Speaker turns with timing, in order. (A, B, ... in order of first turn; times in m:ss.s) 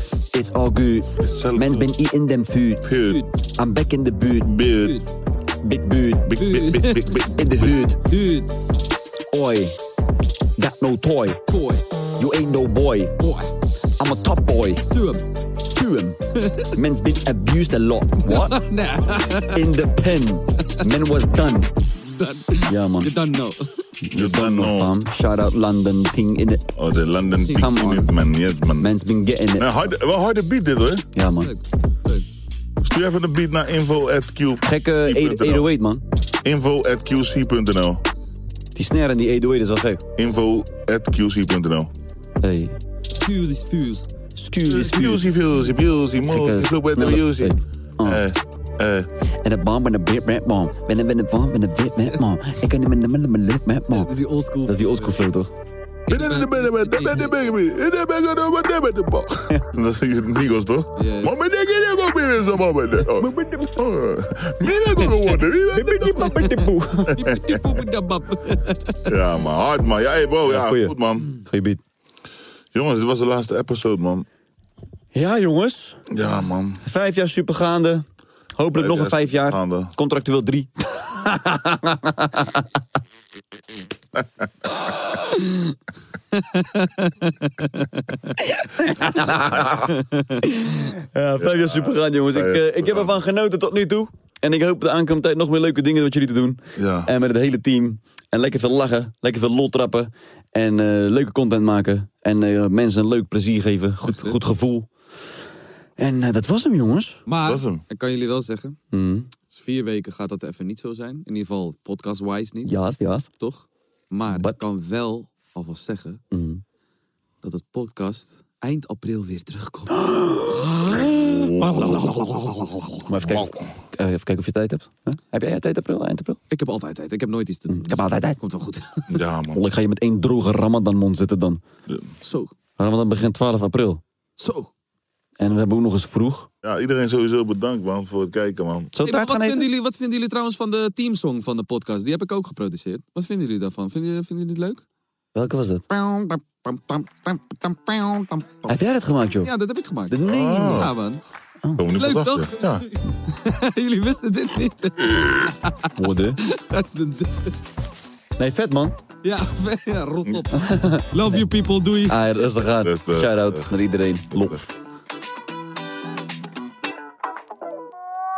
0:00.3-0:02.8 A
0:01.2-0:01.9 B
0:02.8-0:03.2 B
0:03.6-0:04.9 A
0:04.4-0:04.9 B
0:05.6-0:06.3 A
0:06.2-0:07.7 B
0:06.4-0:07.2 C
0:07.3-0:08.0 A
0:08.0-0:08.5 C
0:09.3-0:09.8 A
0:10.6-0:11.4 A
0:11.5-0:11.8 C
0:12.2-0:13.1 A
0:13.2-0:13.5 C
0:14.0-0:14.8 A
0:14.9-0:15.2 C
0:15.6-0:16.2 A
0:16.7-0:18.6 A
0:18.2-0:19.6 C
0:19.5-0:21.7 A
0:22.0-0:23.7 C
0:22.7-0:23.1 A
0:24.0-0:26.6 A
0:24.2-0:24.9 B
0:26.8-0:28.9 B
0:27.5-0:28.0 C
0:27.6-0:28.1 A
0:28.8-0:29.6 A
0:29.6-0:31.1 B
0:31.1-0:31.5 A
0:31.4-0:32.2 C
0:32.8-0:35.7 B
0:34.6-0:36.0 A
0:36.4-0:38.0 B
0:38.7-0:40.0 A
0:40.2-0:41.9 B
0:42.4-0:42.8 A
0:43.1-0:44.1 C
0:44.4-0:45.3 A
0:44.6-0:49.1 B
0:46.3-0:48.2 A
0:49.4-0:54.1 A
0:53.9-0:55.2 C
0:54.6-0:55.5 A
0:56.1-0:57.4 C
0:56.1-1:06.4 B
1:01.0-1:01.3 C
1:03.2-1:03.8 A
1:05.7-1:07.1 A
1:07.1-1:09.0 C
1:09.1-1:11.3 B
1:10.4-1:11.8 A
1:12.7-1:14.2 B
1:15.1-1:16.0 A
1:16.1-1:16.8 B
1:16.8-1:22.4 A
1:18.7-1:19.9 B
1:26.4-1:28.0 C
1:28.6-1:29.8 A
1:30.4-1:44.9 A
1:31.4-1:33.2 B
1:36.8-1:37.1 B
1:44.0-1:44.4 C
1:46.0-1:47.2 A
1:47.2-1:48.8 C
1:47.4-1:47.8 B
1:48.9-1:49.3 A
1:49.5-1:52.7 C
1:52.6-1:53.3 A
1:53.4-1:56.2 C
1:54.3-1:54.6 A
1:56.3-1:56.6 A
1:57.4-2:00.0 C
2:00.0-2:01.0 A
2:00.9-2:02.3 B
2:03.0-2:06.4 A
2:03.2-2:03.7 B
2:06.5-2:09.1 C
2:07.7-2:08.4 A
2:09.1-2:09.6 B
2:09.5-2:11.6 A
2:12.2-2:12.5 C
2:12.8-2:14.0 A
2:14.4-2:14.7 C
2:15.4-2:16.5 A
2:16.6-2:18.9 B
2:18.9-2:19.6 A
2:19.0-2:24.8 C
2:25.3-2:25.9 A
2:25.9-2:28.7 C
2:28.7-2:29.5 A
2:29.4-2:31.2 C
2:30.1-2:30.9 A
2:30.2-2:30.9 B
2:31.8-2:32.8 B
2:32.0-2:35.7 C
2:35.1-2:35.4 B
2:36.0-2:36.4 A
2:36.4-2:37.5 C
2:38.4-2:38.9 A
2:39.2-2:42.2 C
2:40.5-2:41.1 A
2:42.1-2:44.6 A
2:42.8-2:43.7 B